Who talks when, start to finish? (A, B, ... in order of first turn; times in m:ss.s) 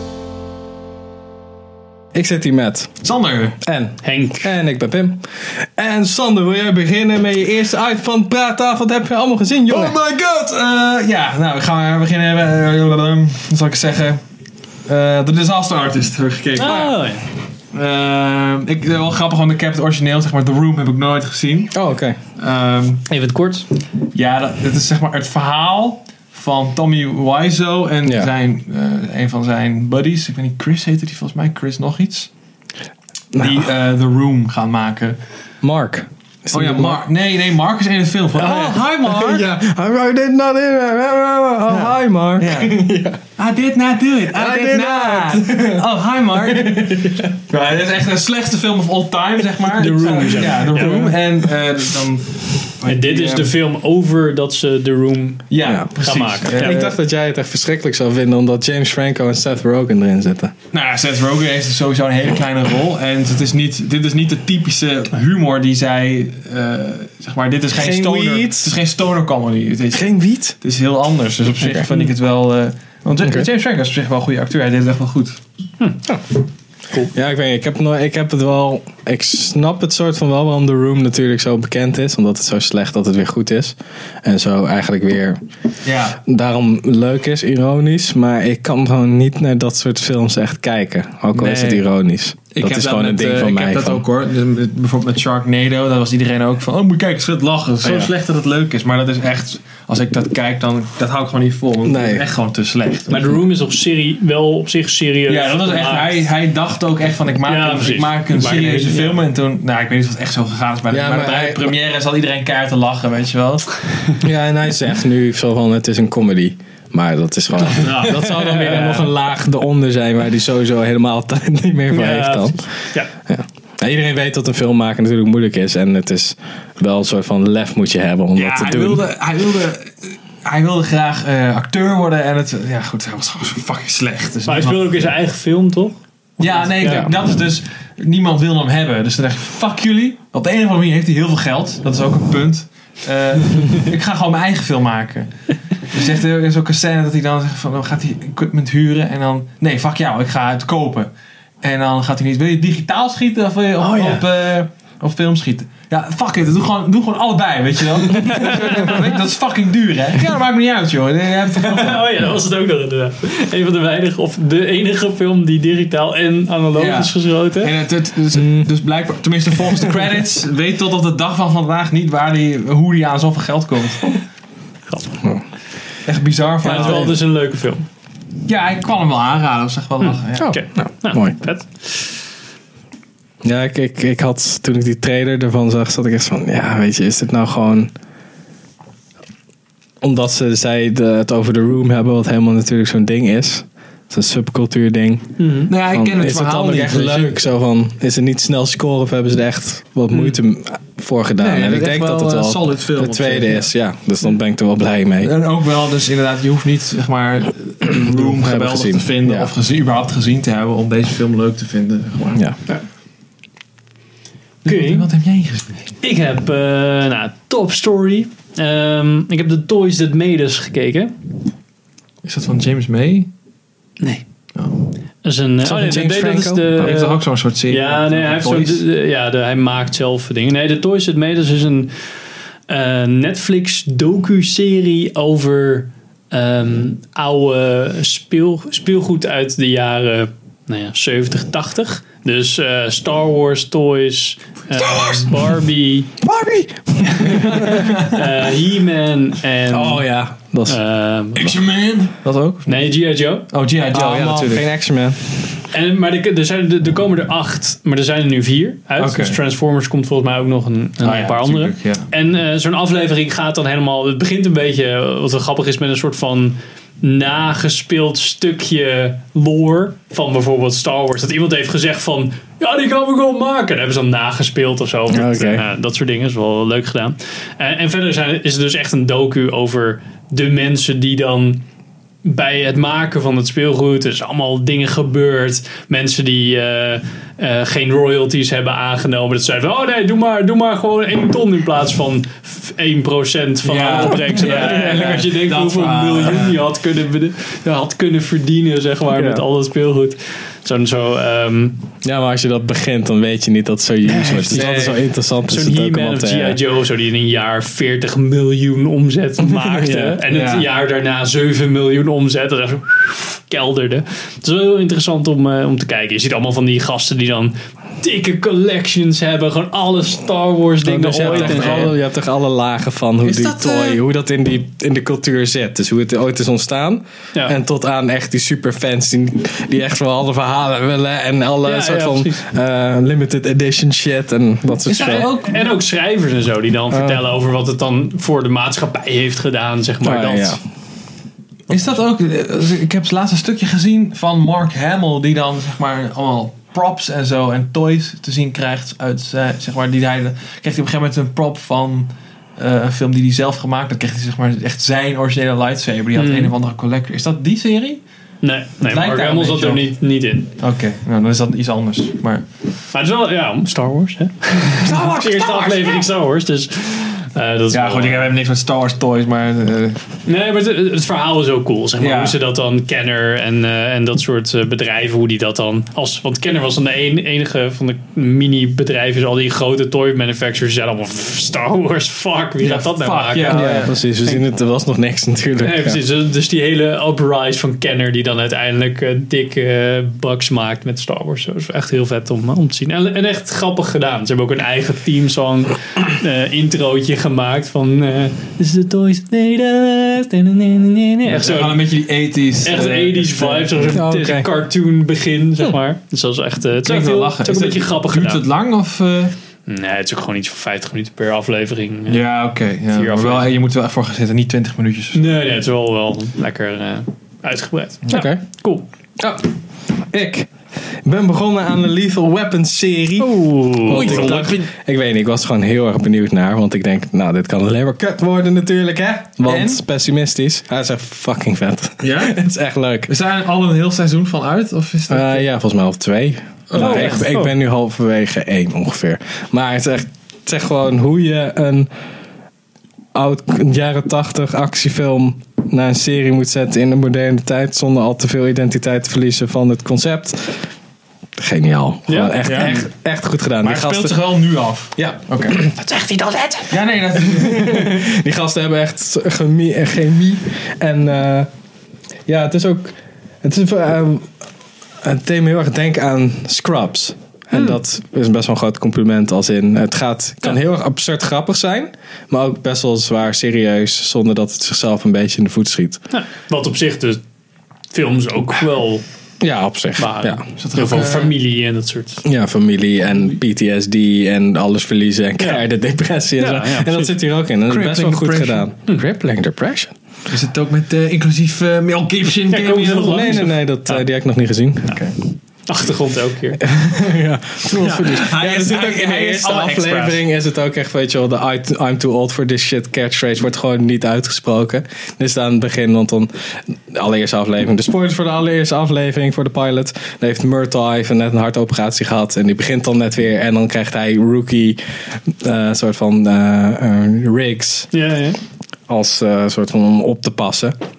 0:02.1-0:02.9 A
0:03.0-0:03.6 B
0:03.6-0:10.0 A
0:04.0-0:04.5 C
0:09.7-0:14.2 B
0:14.8-0:17.1 B
0:16.6-0:17.2 C
0:17.7-0:21.7 B
0:21.7-0:22.2 A
0:22.4-0:23.0 B
0:23.1-0:23.6 C
0:24.1-0:32.3 B
0:28.0-0:28.3 A
0:33.3-0:33.6 A
0:33.4-0:35.2 B
0:35.6-0:37.0 A
0:36.5-0:39.5 B
0:38.4-0:43.2 A
0:41.7-0:42.7 B
0:43.4-0:53.5 B
0:44.3-0:45.8 A
0:46.5-0:47.3 A
0:49.8-0:51.1 C
0:50.4-0:51.1 A
0:52.8-0:56.7 C
0:55.5-0:57.0 B
0:55.6-0:55.9 A
0:56.5-1:00.5 A
1:00.7-1:15.4 B
1:07.7-1:08.7 A
1:09.9-1:10.6 A
1:13.2-1:13.5 A
1:17.0-1:25.4 A
1:25.8-1:26.2 B
1:26.2-1:34.0 A
1:31.3-1:31.8 B
1:32.5-1:43.2 B
1:37.8-1:38.1 A
1:41.8-1:42.2 A
1:43.1-1:46.2 C
1:45.3-1:53.7 B
1:47.4-1:49.2 C
1:50.9-1:51.7 A
1:54.2-2:09.0 A
1:57.6-1:59.1 B
2:01.9-2:03.1 C
2:08.4-2:14.9 B
2:14.5-2:16.0 C
2:16.4-2:42.1 B
2:16.8-2:17.1 C
2:16.8-2:17.1 A
2:33.8-2:34.2 C
2:38.3-2:39.0 C
2:41.6-2:47.7 C
2:46.7-2:54.2 B
2:48.3-2:48.7 A
2:54.9-2:55.2 C
2:56.0-2:57.2 B
2:56.6-2:57.8 C
2:58.4-3:00.5 B
3:00.3-3:02.2 C
3:00.4-3:01.4 A
3:03.4-3:07.9 A
3:10.0-3:25.3 A
3:15.4-3:15.7 C
3:15.7-3:17.4 B
3:21.4-3:23.7 B
3:25.2-3:32.4 B
3:27.8-3:29.5 A
3:34.6-3:35.1 C
3:34.6-3:35.8 B
3:36.0-3:41.1 C
3:42.2-3:43.3 B
3:45.2-3:51.9 C
3:45.6-3:46.9 A
3:46.8-3:48.8 B
3:52.7-4:06.2 C
4:04.7-4:05.4 B
4:06.2-4:08.0 A
4:07.0-4:10.0 C
4:07.6-4:08.3 B
4:09.7-4:10.8 A
4:10.7-4:11.6 C
4:11.3-4:12.9 B
4:12.7-4:13.5 C
4:13.5-4:14.6 B
4:13.9-4:15.2 A
4:15.7-4:41.6 C
4:19.0-4:19.4 B
4:21.0-4:22.1 B
4:35.1-4:35.6 A
4:42.2-5:01.8 C
4:53.6-4:56.6 B
4:59.1-4:59.4 A
5:02.0-5:06.6 A
5:04.1-5:21.9 C
5:04.5-5:05.0 B
5:09.4-5:10.2 A
5:10.3-5:10.7 B
5:20.8-5:35.3 A
5:21.2-5:21.9 B
5:23.2-5:24.0 B
5:31.6-5:32.4 C
5:34.9-5:40.6 C
5:34.9-5:35.5 B
5:36.9-5:37.2 A
5:40.0-5:40.6 A
5:41.7-5:58.0 B
5:56.1-5:56.5 C
5:58.4-6:00.5 C
5:58.9-5:59.9 B
6:00.6-6:02.4 B
6:02.9-6:08.3 C
6:04.8-6:06.0 A
6:07.7-6:10.0 B
6:10.2-6:24.4 C
6:12.0-6:12.4 B
6:22.6-6:24.0 B
6:23.5-6:26.0 A
6:25.6-6:41.9 C
6:41.2-6:44.0 B
6:42.6-6:48.4 C
6:43.9-6:44.5 A
6:46.8-6:49.3 B
6:49.7-6:52.2 C
6:52.1-6:55.4 B
6:52.9-6:53.5 C
6:55.1-6:58.8 C
6:58.1-6:58.4 A
6:59.2-7:13.1 A
7:03.2-7:04.5 C
7:03.9-7:04.7 B
7:09.4-7:09.8 B
7:12.0-7:12.4 B
7:13.1-7:15.4 B
7:15.1-7:21.9 A
7:16.7-7:17.2 B
7:16.8-7:17.5 C
7:23.1-7:30.7 A
7:31.4-7:34.2 A
7:32.1-7:32.9 C
7:32.4-7:32.8 B
7:33.6-7:35.6 B
7:35.0-7:35.8 A
7:35.8-7:36.7 C
7:36.7-7:38.0 B
7:37.2-7:41.5 A
7:42.3-7:44.3 A
7:45.0-7:56.0 A
7:56.1-7:57.2 C
7:57.9-7:59.0 C
7:59.4-8:00.4 A
8:00.0-8:02.2 C
8:00.6-8:01.3 B
8:02.2-8:09.9 A
8:06.4-8:07.1 C
8:07.7-8:08.6 B
8:10.3-8:13.4 B
8:12.5-8:14.0 C
8:13.0-8:15.0 A
8:14.9-8:15.1 B
8:15.7-8:16.6 C
8:16.6-8:37.9 A
8:17.6-8:20.2 B
8:37.9-8:38.4 C
8:38.9-8:40.8 A